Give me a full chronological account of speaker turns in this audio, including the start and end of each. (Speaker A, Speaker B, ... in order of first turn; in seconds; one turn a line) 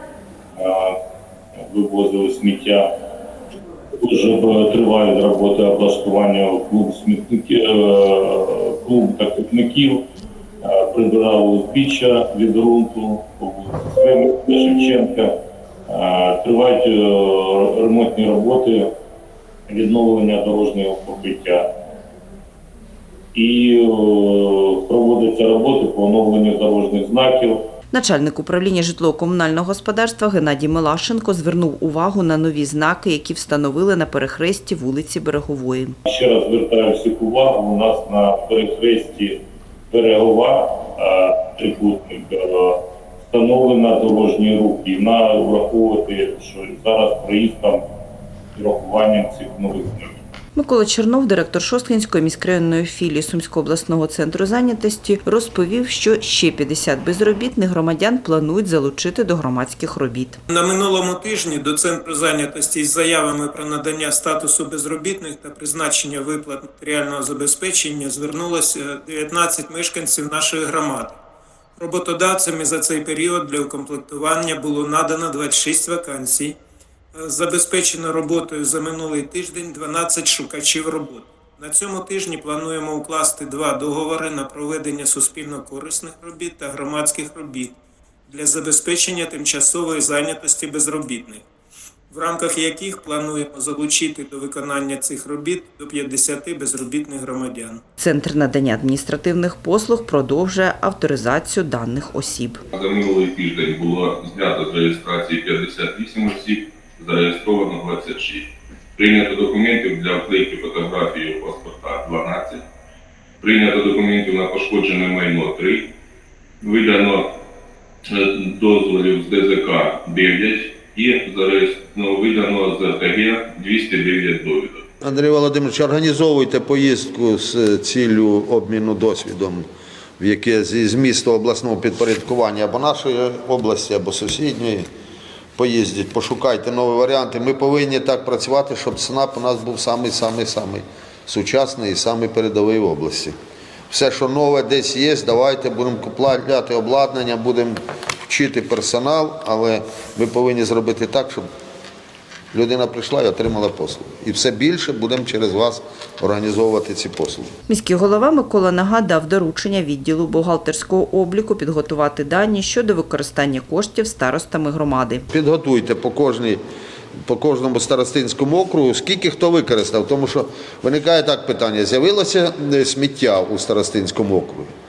Speaker A: 0.6-0.9
Speaker A: 1.6-2.9
Speaker A: 4.0-10.0
Speaker A: 10.6-15.3
Speaker A: 15.9-18.9
Speaker A: 19.7-21.6
Speaker A: 23.3-27.6
Speaker B: 27.9-36.0
Speaker A: 36.0-39.4
Speaker A: 39.9-47.8
Speaker A: 48.5-50.2
Speaker B: 50.5-60.4
Speaker C: 60.5-71.2
Speaker C: 71.8-76.6
Speaker C: 77.1-87.8
Speaker C: 88.3-91.4
Speaker C: 92.1-97.8
Speaker B: 98.0-102.6
Speaker D: 102.7-112.6
Speaker D: 113.4-115.9
Speaker D: 116.6-117.3
Speaker D: 118.1-124.8
Speaker E: 125.0-129.7
Speaker E: 130.2-134.8
Speaker E: 135.6-143.3
Speaker E: 143.9-151.4
Speaker E: 152.5-157.5
Speaker B: 157.7-165.2
Speaker E: 165.3-166.6
Speaker E: 167.2-174.7